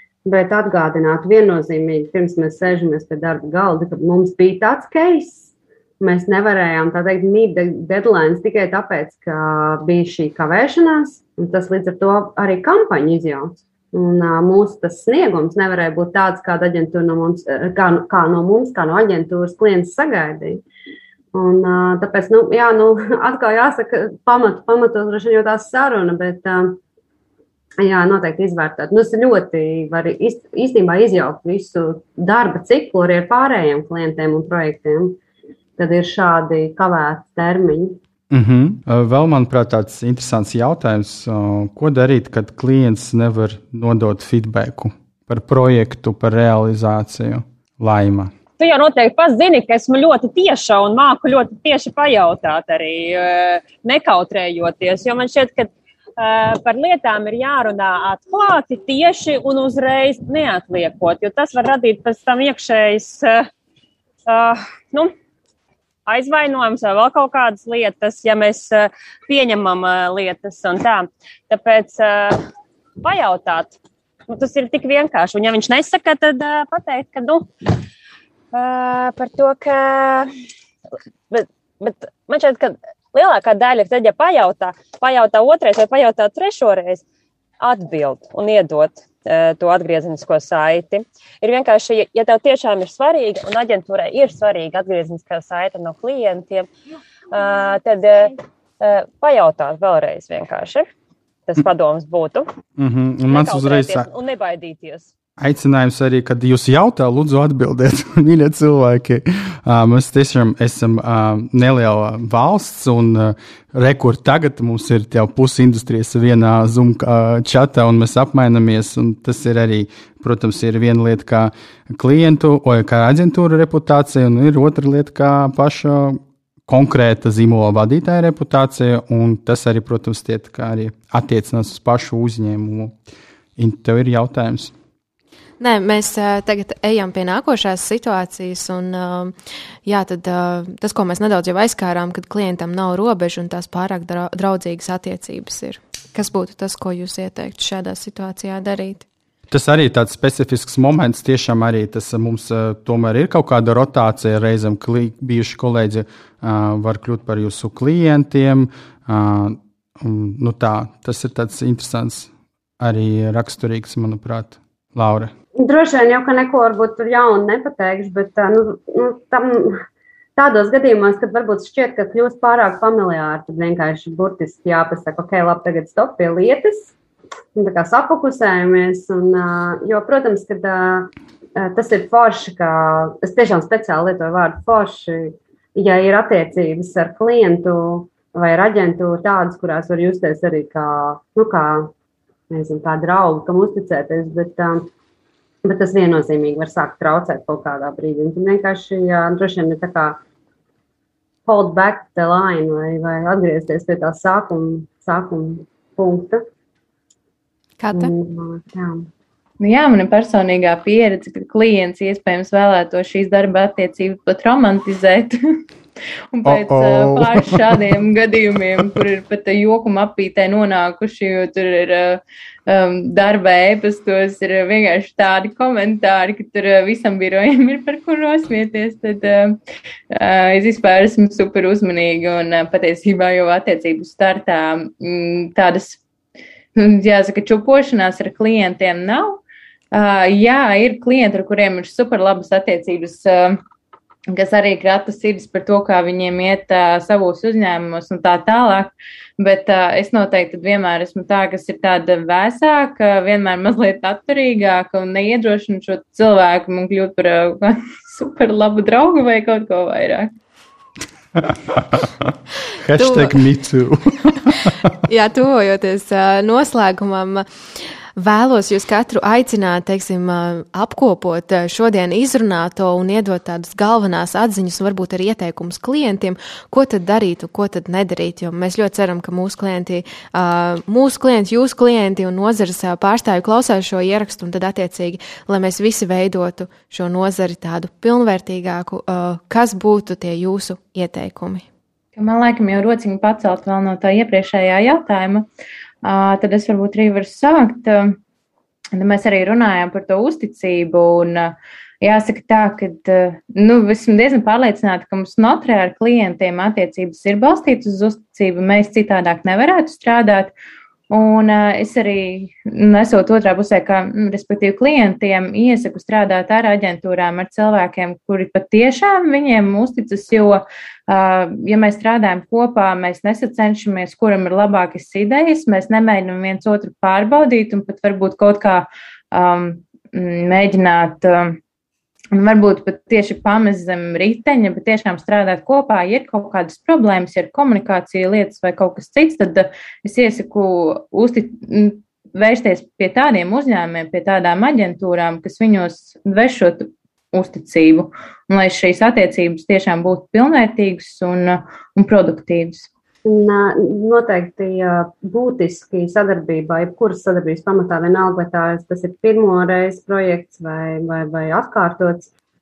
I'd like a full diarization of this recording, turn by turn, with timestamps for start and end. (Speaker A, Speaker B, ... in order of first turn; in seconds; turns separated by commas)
Speaker A: 0.2-20.6, Speaker A: 21.3-26.8, Speaker A: 27.8-35.2, Speaker A: 35.8-38.0, Speaker B: 38.3-48.3, Speaker C: 48.6-63.5, Speaker C: 64.3-65.1, Speaker C: 66.1-72.4, Speaker C: 73.0-73.8, Speaker C: 74.3-77.5, Speaker C: 78.5-80.3, Speaker C: 81.3-87.0, Speaker C: 87.6-96.7, Speaker C: 97.3-100.9, Speaker C: 101.5-102.5, Speaker B: 102.8-104.1, Speaker C: 103.3-105.1, Speaker B: 105.4-132.9, Speaker B: 133.6-134.7, Speaker D: 135.6-149.1, Speaker B: 149.5-165.3, Speaker A: 165.6-169.8, Speaker A: 170.4-176.9, Speaker A: 177.6-191.9, Speaker A: 192.5-194.9, Speaker A: 195.6-200.2, Speaker A: 201.4-206.4, Speaker D: 207.8-208.1, Speaker A: 207.9-209.1, Speaker E: 209.6-215.3, Speaker E: 216.3-229.6, Speaker B: 216.4-217.9, Speaker E: 230.1-236.0, Speaker E: 236.8-239.4, Speaker E: 239.9-243.6, Speaker E: 244.3-260.3, Speaker B: 261.4-262.3, Speaker B: 262.8-264.9, Speaker D: 263.0-263.3, Speaker D: 265.1-267.4, Speaker D: 268.1-291.6, Speaker E: 292.1-295.5, Speaker E: 296.0-298.2, Speaker E: 298.9-310.5, Speaker E: 311.1-331.6, Speaker E: 332.3-352.9, Speaker A: 353.2-362.3